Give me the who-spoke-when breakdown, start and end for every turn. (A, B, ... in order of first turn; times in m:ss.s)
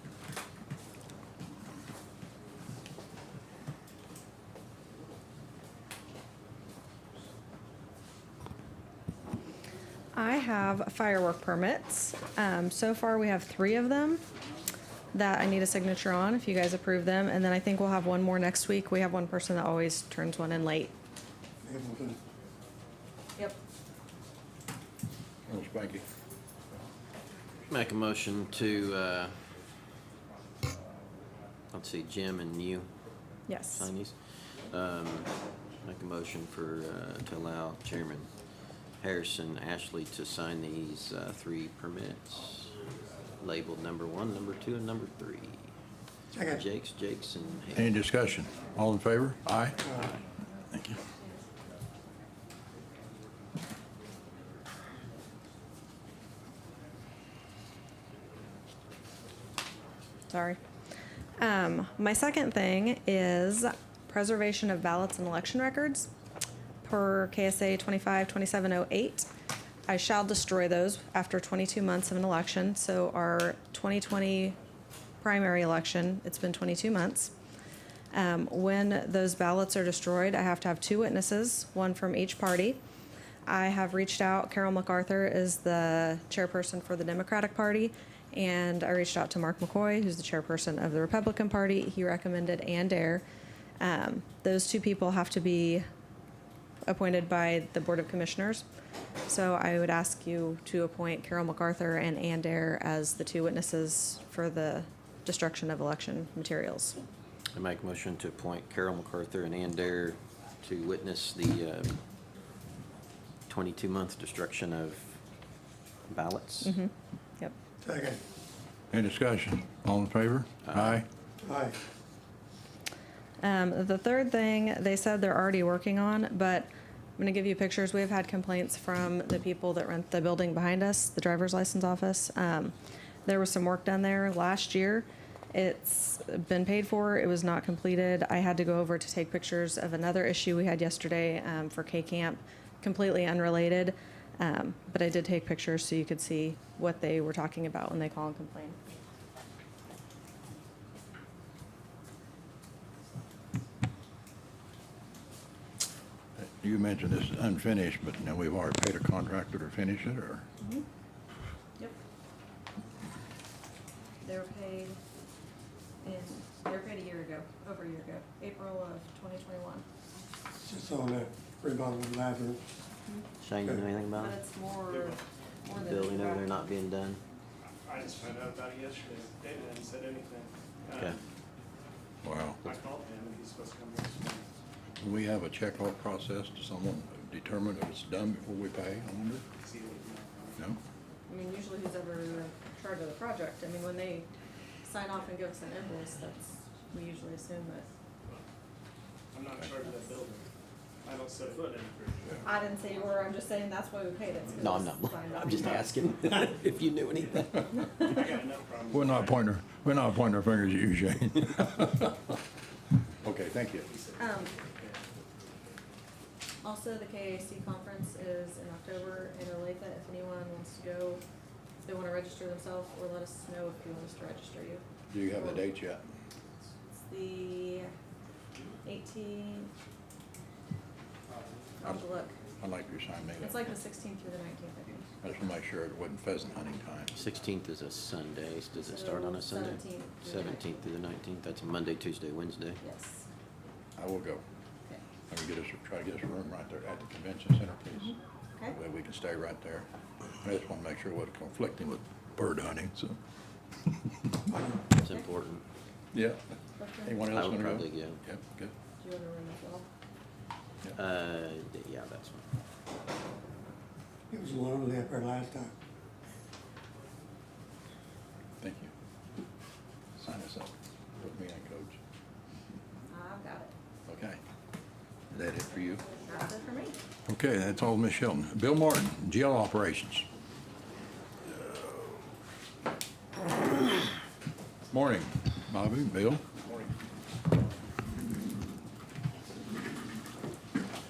0:10.1-0:14.2 A
0:15.1-0:20.9 A
0:21.6-0:22.2 B
0:25.5-0:26.0 C
0:27.7-0:29.5 D
0:31.7-0:32.9 D
0:33.5-0:33.9 A
0:33.7-0:38.3 D
0:39.0-0:42.8 D
0:43.4-0:45.7 D
0:46.3-0:46.6 B
0:46.4-0:48.0 D
0:47.7-0:49.8 C
0:49.8-0:50.2 D
0:50.7-0:51.0 C
1:00.3-1:00.6 A
1:01.4-1:06.1 A
1:06.8-1:09.3 A
1:09.9-1:14.6 A
1:15.2-1:17.3 A
1:18.1-1:22.8 A
1:23.5-1:33.2 A
1:33.8-1:35.8 A
1:36.8-1:38.6 A
1:39.3-1:47.0 A
1:47.5-1:52.0 D
1:53.5-1:55.2 D
1:56.1-1:56.7 D
1:56.6-1:57.5 A
1:57.8-1:58.2 B
1:58.9-2:01.1 C
2:00.6-2:01.0 D
2:01.4-2:01.8 B
2:03.4-2:12.7 A
2:13.2-2:28.8 A
2:36.4-2:40.4 C
2:44.2-2:45.0 A
2:46.0-2:49.8 A
2:50.6-2:52.6 B
2:53.4-2:54.4 D
2:54.2-2:56.6 A
2:54.9-2:55.2 E
2:55.7-2:57.2 D
2:57.8-3:01.3 E
3:02.2-3:02.6 C
3:02.6-3:04.5 E
3:05.0-3:09.4 C
3:09.6-3:10.6 E
3:11.3-3:14.3 A
3:14.8-3:17.9 A
3:19.3-3:20.5 E
3:19.6-3:20.2 A
3:21.0-3:22.5 E
3:22.4-3:25.9 A
3:24.6-3:27.8 D
3:25.5-3:25.8 E
3:27.7-3:28.3 A
3:27.9-3:29.4 E
3:28.9-3:32.2 C
3:33.2-3:33.9 C
3:33.8-3:35.2 E
3:34.2-3:34.5 A
3:36.6-3:41.2 A
3:41.8-3:44.8 A
3:45.1-3:46.0 C
3:47.1-3:47.9 A
3:48.8-3:49.7 A
3:51.8-3:52.4 A
3:52.6-3:53.7 C
3:53.4-3:55.1 A
3:55.2-3:57.1 C
3:57.1-4:02.8 D
3:58.8-4:00.8 A
4:02.8-4:03.3 A
4:04.0-4:04.4 C
4:05.3-4:08.2 C
4:07.9-4:08.8 A
4:08.7-4:09.9 C
4:10.4-4:13.2 C
4:13.9-4:14.5 C
4:15.0-4:15.2 A
4:15.0-4:15.6 D
4:16.1-4:16.4 C
4:16.8-4:17.2 A
4:17.0-4:18.7 C
4:17.3-4:18.2 D
4:19.0-4:19.9 A
4:21.0-4:22.4 D
4:24.3-4:25.7 B
4:28.6-4:28.9 C
4:30.2-4:32.0 C
4:33.1-4:33.7 A
4:34.1-4:34.4 C
4:35.3-4:36.0 C
4:36.2-4:37.0 A
4:37.3-4:40.3 C
4:41.5-4:42.2 C
4:44.9-4:46.9 C